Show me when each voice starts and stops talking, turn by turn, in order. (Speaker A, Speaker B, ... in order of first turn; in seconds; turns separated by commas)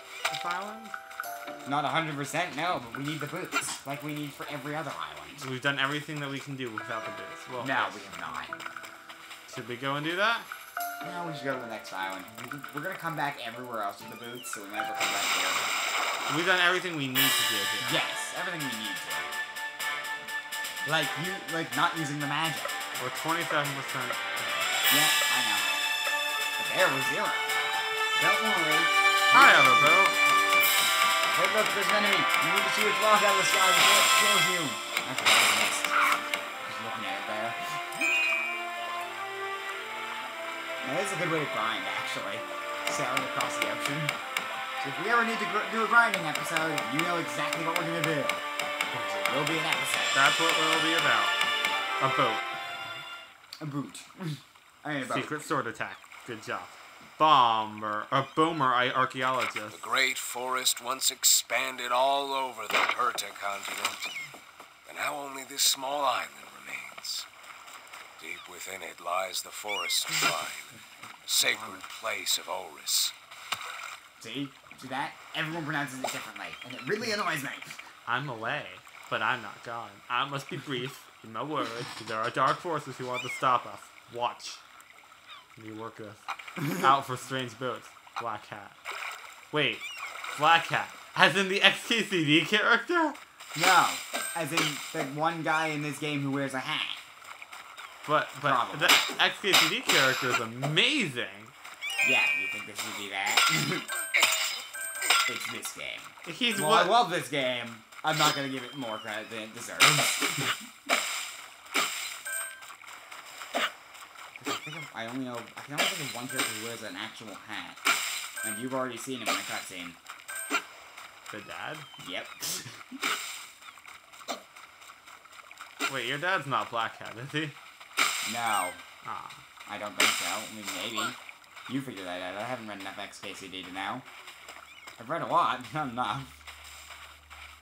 Speaker A: 0.3-0.9, Speaker B: 1.6-5.5, Speaker A: 5.4-8.0, Speaker B: 7.6-8.6, Speaker A: 9.5-10.5, Speaker B: 11.0-15.8, Speaker A: 16.3-18.0, Speaker B: 17.8-19.3, Speaker B: 20.8-22.7, Speaker A: 23.0-24.7, Speaker B: 24.9-25.7, Speaker B: 26.6-27.5, Speaker B: 28.2-30.1, Speaker A: 29.3-30.2, Speaker B: 31.3-37.6, Speaker B: 40.8-44.2, Speaker B: 44.8-50.2, Speaker A: 50.1-51.4, Speaker A: 52.0-52.5, Speaker B: 53.6-55.4, Speaker A: 55.0-59.9, Speaker C: 59.7-64.1, Speaker C: 64.9-67.3, Speaker C: 68.2-73.1, Speaker B: 74.2-77.8, Speaker A: 78.1-84.6, Speaker A: 85.6-88.8, Speaker B: 86.6-86.9, Speaker A: 89.5-93.2, Speaker B: 93.5-97.0, Speaker A: 98.0-101.5, Speaker B: 98.4-99.0, Speaker B: 102.0-103.9, Speaker B: 105.3-110.5, Speaker A: 106.2-107.0, Speaker B: 114.4-117.8, Speaker B: 118.4-120.0, Speaker A: 121.3-121.9, Speaker B: 122.0-122.8, Speaker A: 125.9-127.6, Speaker B: 128.2-128.8, Speaker A: 129.0-129.4, Speaker B: 129.7-134.1, Speaker B: 135.0-136.3